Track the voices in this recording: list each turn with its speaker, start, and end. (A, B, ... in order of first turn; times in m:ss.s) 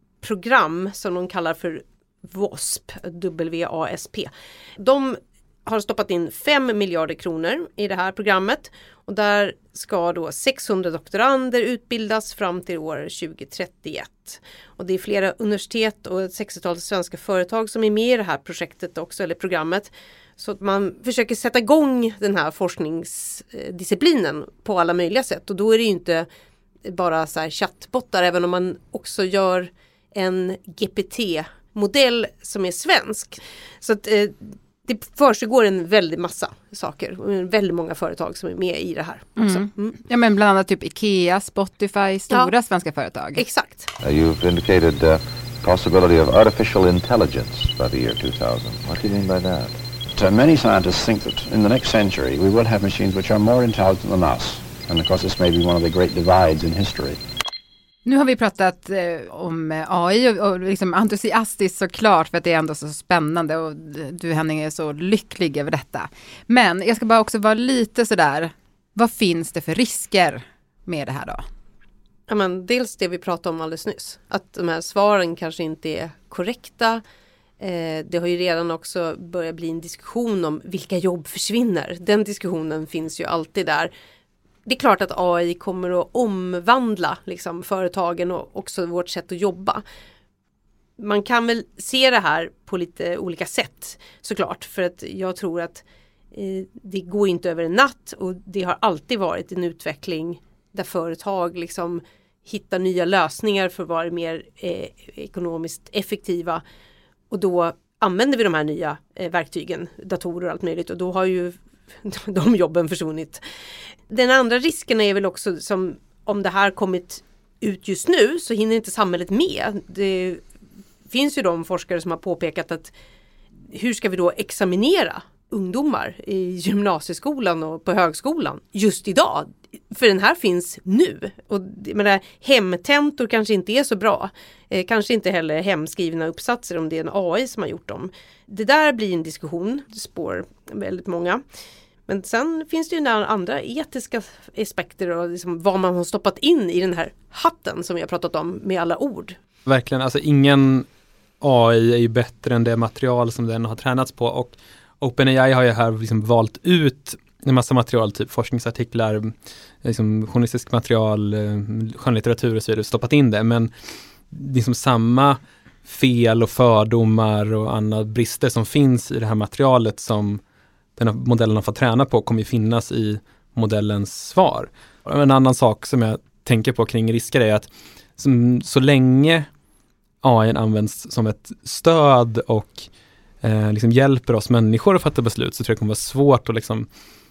0:00.2-0:26.3 A
0:26.8-0:39.9 A
0:39.4-0:43.4 B
0:43.3-0:43.9 A
0:44.0-0:49.8 C
0:50.2-0:57.2 D
0:58.0-1:11.4 B
1:12.3-1:17.0 A
1:17.6-1:23.9 A
1:24.6-1:29.8 A
1:31.0-1:46.6 A
1:47.3-1:53.4 A
1:54.1-2:00.4 A
2:01.1-2:02.9 A
2:03.7-2:21.4 A
2:22.1-2:29.4 A
2:29.6-2:30.8 E
2:31.4-2:39.3 E
2:39.8-2:43.7 E
2:44.3-2:50.4 E
2:51.0-2:59.5 E
3:00.2-3:02.9 E
3:03.4-3:06.9 E